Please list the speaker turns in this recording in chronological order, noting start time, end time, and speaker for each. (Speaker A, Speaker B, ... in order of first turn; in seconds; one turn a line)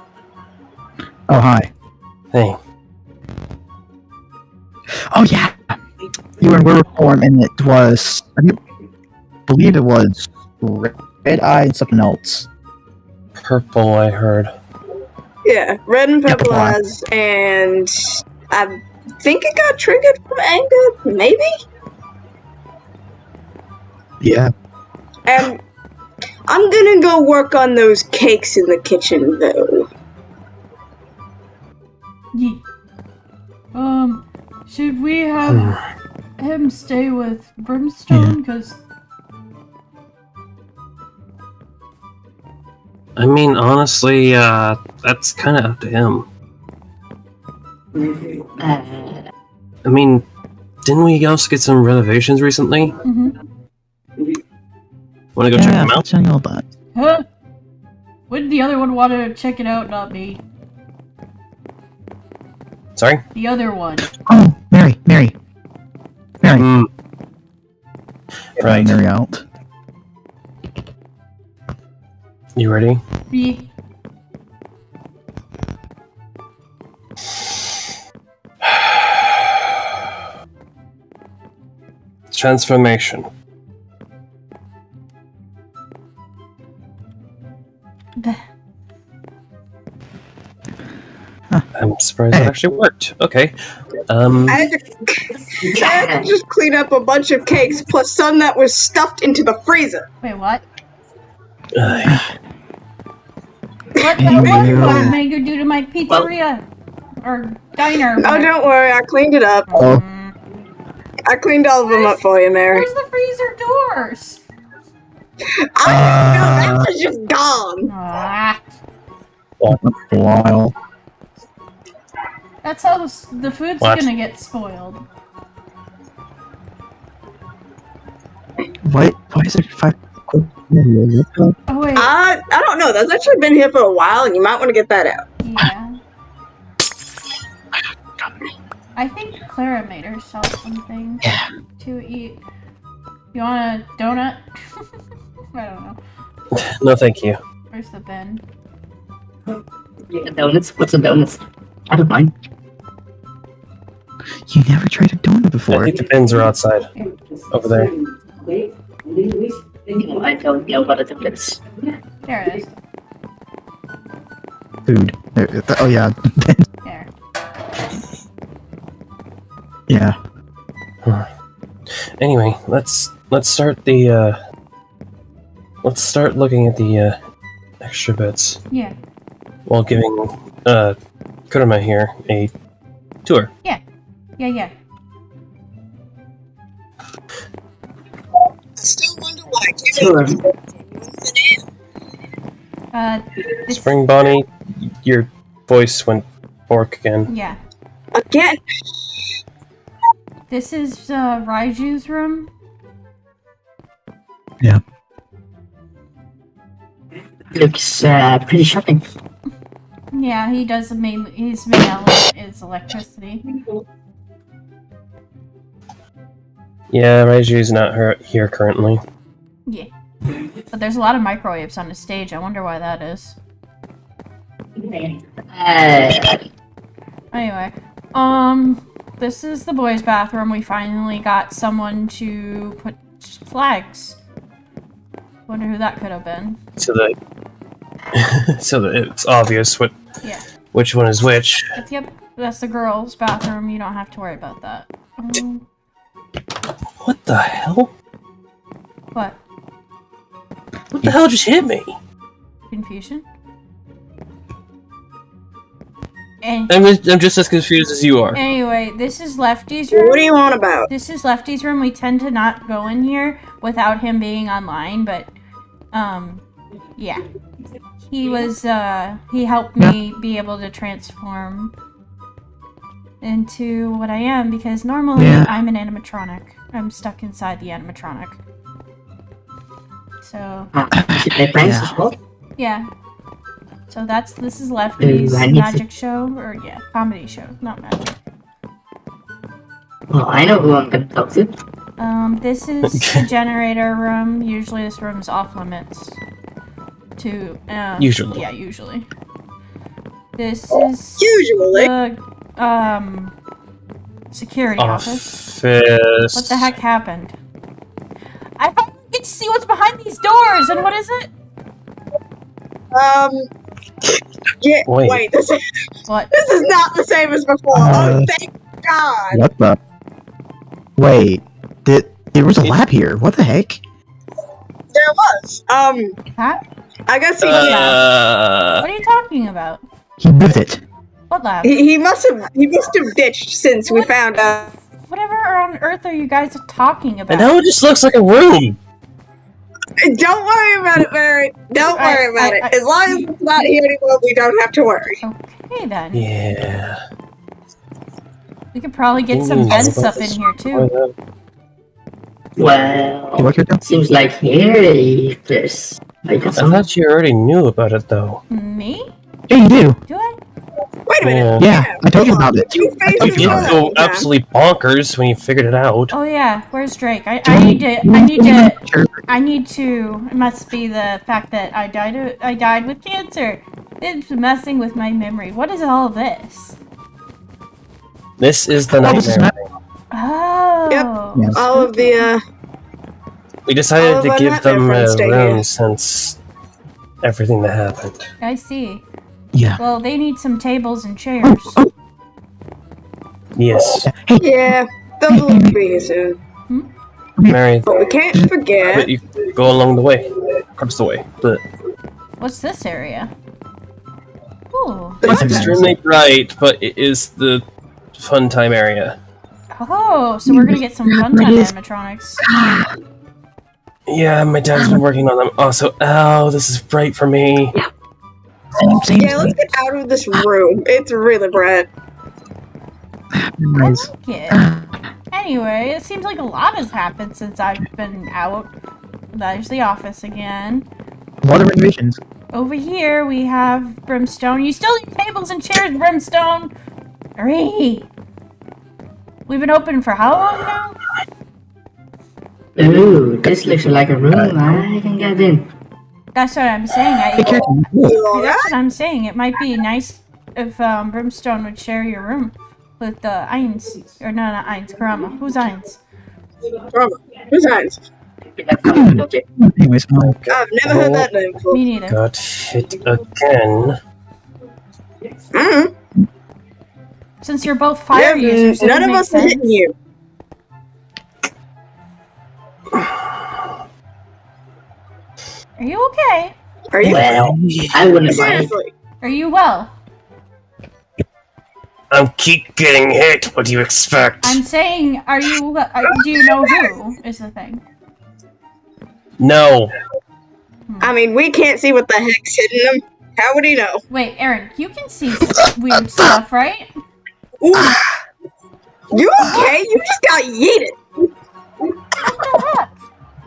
Speaker A: 1.3-1.7
Speaker B: 2.3-2.6
Speaker A: 5.1-5.8
Speaker A: 6.4-8.6
Speaker A: 9.5-12.5
Speaker B: 13.4-14.5
Speaker C: 15.4-17.9
Speaker A: 16.2-16.8
Speaker C: 18.5-21.5
Speaker A: 24.2-24.5
Speaker C: 25.2-25.6
Speaker C: 26.5-29.9
Speaker D: 32.3-32.6
Speaker D: 33.7-35.8
Speaker B: 35.5-35.8
Speaker D: 36.4-38.8
Speaker A: 38.1-38.4
Speaker B: 43.2-46.2
Speaker E: 48.0-49.3
Speaker B: 49.8-50.2
Speaker B: 50.8-53.0
Speaker D: 53.0-53.3
Speaker B: 55.3-56.0
Speaker A: 55.5-56.7
Speaker D: 56.9-57.2
Speaker D: 58.3-60.4
Speaker B: 63.0-63.2
Speaker D: 63.3-64.1
Speaker A: 64.2-65.3
Speaker A: 66.4-66.7
Speaker B: 66.5-66.9
Speaker B: 68.5-69.0
Speaker A: 68.6-69.4
Speaker B: 72.5-73.0
Speaker D: 73.3-73.7
Speaker B: 78.6-79.6
Speaker B: 82.3-83.3
Speaker B: 91.8-93.5
Speaker B: 94.1-94.6
Speaker C: 94.5-100.0
Speaker E: 95.6-96.3
Speaker D: 100.2-100.6
Speaker B: 101.7-102.2
Speaker A: 102.0-102.3
Speaker D: 104.0-106.6
Speaker A: 104.2-105.2
Speaker C: 104.2-105.2
Speaker D: 107.2-108.5
Speaker C: 108.2-109.7
Speaker D: 109.7-110.3
Speaker A: 109.8-110.0
Speaker C: 111.3-112.9
Speaker D: 111.8-114.4
Speaker C: 115.8-117.9
Speaker A: 115.8-116.9
Speaker D: 117.8-118.8
Speaker A: 119.7-120.7
Speaker D: 122.6-125.0
Speaker B: 123.8-124.1
Speaker A: 128.8-131.5
Speaker D: 131.7-132.1
Speaker C: 132.0-135.2
Speaker D: 135.4-136.0
Speaker D: 138.9-141.2
Speaker A: 141.2-141.5
Speaker D: 141.8-142.4
Speaker D: 143.3-144.8
Speaker D: 145.5-146.0
Speaker B: 146.5-147.4
Speaker D: 147.7-148.4
Speaker E: 150.1-152.3
Speaker A: 154.5-156.1
Speaker B: 155.7-156.9
Speaker B: 157.5-157.9
Speaker E: 159.2-161.6
Speaker D: 162.2-162.7
Speaker A: 164.8-166.7
Speaker D: 166.8-167.1
Speaker A: 169.9-170.2
Speaker B: 171.9-174.4
Speaker B: 175.8-177.2
Speaker B: 177.8-178.6
Speaker D: 178.7-178.9
Speaker B: 179.7-180.9
Speaker B: 181.5-182.5
Speaker B: 183.2-183.5
Speaker D: 184.4-184.7
Speaker C: 188.8-191.6
Speaker E: 189.9-190.4
Speaker D: 192.9-193.9
Speaker B: 193.7-197.3
Speaker D: 197.3-197.6
Speaker C: 198.1-198.6
Speaker D: 200.5-202.5
Speaker E: 207.5-209.0
Speaker D: 210.1-213.4
Speaker B: 216.9-219.0
Speaker D: 220.7-223.4
Speaker E: 224.8-226.4
Speaker D: 227.3-234.2
Speaker D: 235.5-236.6
Speaker B: 236.8-237.1
Speaker B: 238.1-239.9
Speaker B: 240.7-241.7
Speaker D: 241.7-245.6
Speaker B: 247.0-247.9
Speaker B: 251.0-251.9
Speaker D: 252.7-253.2
Speaker D: 256.4-256.7
Speaker B: 256.7-258.4
Speaker D: 258.3-260.3
Speaker C: 259.9-260.9
Speaker D: 260.9-265.3
Speaker D: 265.9-266.4
Speaker D: 267.0-267.2
Speaker D: 268.1-271.7
Speaker D: 273.2-278.4
Speaker A: 275.1-275.5
Speaker D: 280.2-280.7
Speaker E: 280.7-282.1
Speaker A: 280.9-282.0
Speaker D: 282.6-282.9
Speaker D: 283.9-288.1
Speaker E: 285.0-285.8
Speaker E: 290.1-291.5
Speaker D: 292.0-296.2
Speaker B: 292.9-293.2
Speaker D: 297.2-299.1
Speaker B: 298.0-298.4
Speaker D: 300.4-303.3
Speaker C: 301.2-301.9
Speaker D: 304.3-305.3
Speaker B: 304.8-306.7
Speaker D: 306.3-307.3
Speaker D: 308.6-311.3
Speaker C: 312.9-313.5
Speaker C: 314.6-315.6
Speaker B: 314.9-315.2
Speaker C: 316.3-319.4
Speaker A: 317.7-318.3
Speaker A: 319.3-319.8
Speaker A: 321.0-323.8
Speaker C: 324.9-326.1
Speaker D: 326.3-326.6
Speaker C: 327.1-327.9
Speaker B: 327.4-328.8
Speaker D: 327.5-328.0
Speaker D: 328.8-329.8
Speaker A: 330.2-330.8
Speaker D: 331.3-331.8
Speaker C: 331.6-334.6
Speaker D: 333.8-337.5
Speaker B: 337.3-338.8
Speaker C: 340.0-345.2
Speaker D: 341.9-343.2
Speaker D: 345.2-346.3
Speaker B: 346.1-347.0
Speaker D: 348.7-350.9
Speaker B: 349.3-351.1
Speaker E: 352.6-356.8
Speaker A: 353.4-353.8
Speaker B: 356.6-358.4
Speaker D: 358.5-359.1
Speaker A: 359.5-360.0
Speaker D: 360.1-360.4
Speaker C: 361.1-364.2
Speaker B: 361.2-361.7
Speaker A: 361.6-363.8
Speaker B: 363.2-366.1
Speaker D: 366.1-376.8
Speaker A: 367.4-369.2
Speaker B: 378.4-379.6
Speaker A: 378.9-379.5
Speaker D: 380.1-382.3
Speaker C: 380.9-382.4
Speaker A: 381.3-381.6
Speaker B: 383.6-386.4
Speaker C: 384.0-385.6
Speaker B: 387.2-388.3
Speaker D: 388.4-389.0
Speaker A: 389.5-389.8
Speaker D: 389.8-391.8
Speaker A: 391.4-391.9
Speaker B: 393.6-394.1
Speaker A: 394.0-394.7
Speaker C: 394.4-396.4
Speaker A: 395.3-395.8
Speaker B: 397.5-398.1
Speaker C: 397.9-399.1
Speaker B: 398.9-401.6
Speaker D: 402.4-403.3
Speaker D: 404.7-405.2
Speaker B: 405.2-409.2
Speaker C: 405.2-405.8
Speaker A: 405.2-405.9
Speaker D: 409.7-412.4
Speaker A: 410.5-411.7
Speaker A: 412.4-412.9
Speaker B: 414.1-417.8
Speaker A: 414.7-415.0
Speaker A: 418.8-419.8
Speaker C: 419.2-421.9
Speaker A: 423.3-424.9
Speaker D: 423.8-424.6
Speaker D: 425.3-428.7
Speaker D: 429.3-430.9
Speaker A: 431.4-432.2
Speaker D: 432.5-436.7
Speaker D: 437.4-438.1
Speaker D: 439.5-441.0
Speaker E: 442.8-445.6
Speaker A: 444.3-444.8
Speaker D: 446.3-447.7
Speaker A: 447.3-448.2
Speaker C: 448.0-448.7
Speaker D: 448.3-456.0
Speaker C: 456.8-458.0
Speaker E: 458.5-459.4
Speaker A: 458.9-460.3
Speaker B: 460.2-461.3
Speaker C: 460.5-461.8
Speaker D: 461.7-462.2
Speaker B: 462.1-464.0
Speaker C: 465.5-465.9
Speaker D: 467.4-469.8
Speaker C: 468.1-469.9
Speaker B: 472.9-473.3
Speaker D: 475.8-476.5
Speaker C: 476.9-477.3
Speaker B: 477.0-478.1
Speaker E: 477.0-478.7
Speaker C: 478.2-478.9
Speaker D: 479.2-479.9
Speaker B: 482.1-484.6
Speaker D: 484.4-487.8
Speaker B: 489.4-489.9
Speaker D: 490.9-491.1
Speaker C: 491.0-494.0
Speaker D: 494.1-496.9
Speaker C: 497.6-498.0
Speaker C: 499.1-501.0
Speaker D: 502.2-503.0